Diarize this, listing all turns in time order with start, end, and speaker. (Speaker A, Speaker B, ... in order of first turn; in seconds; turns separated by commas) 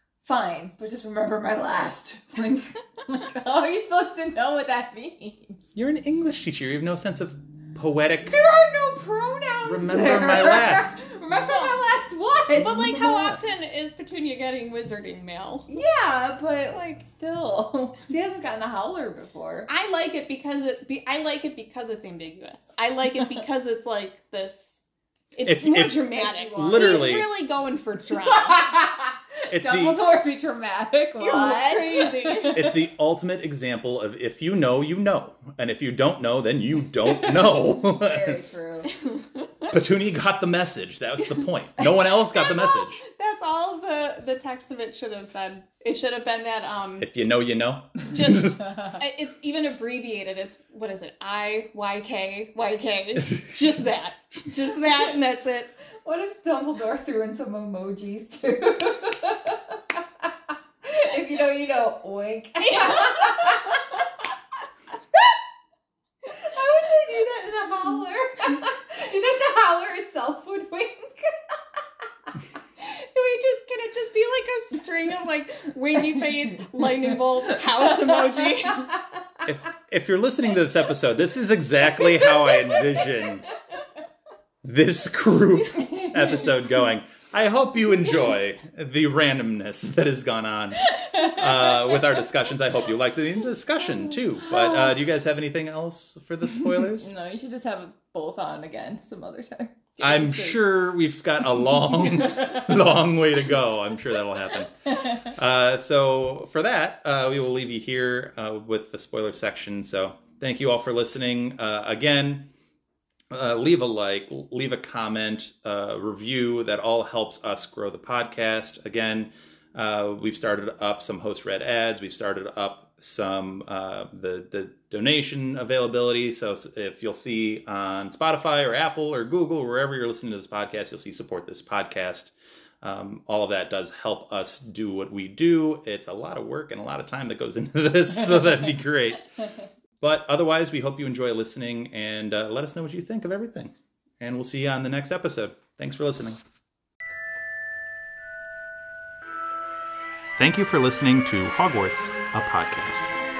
Speaker A: 0.2-5.6, Speaker B: 5.8-8.4, Speaker A: 8.3-12.8, Speaker B: 9.7-11.1, Speaker C: 12.6-15.7, Speaker B: 12.7-13.5, Speaker A: 15.7-19.7, Speaker C: 16.7-17.0, Speaker C: 19.7-24.8, Speaker C: 25.3-28.7, Speaker B: 25.5-27.3, Speaker A: 26.1-27.2, Speaker A: 28.2-32.7, Speaker B: 29.5-30.0, Speaker C: 31.2-32.7, Speaker B: 32.5-38.4, Speaker A: 37.1-38.9, Speaker C: 39.0-39.7, Speaker B: 39.7-43.0, Speaker C: 42.3-47.1, Speaker B: 47.0-48.6, Speaker C: 48.1-55.7, Speaker A: 56.0-60.3, Speaker A: 60.8-63.8, Speaker C: 62.7-63.6, Speaker A: 66.3-71.3, Speaker C: 72.8-79.0, Speaker B: 79.5-83.5, Speaker B: 84.6-97.1, Speaker A: 91.0-91.7, Speaker A: 94.5-94.9, Speaker A: 96.8-100.7, Speaker B: 100.0-112.5, Speaker A: 101.9-102.7, Speaker A: 104.9-105.3, Speaker B: 113.3-139.3, Speaker B: 140.0-146.4, Speaker B: 150.4-153.1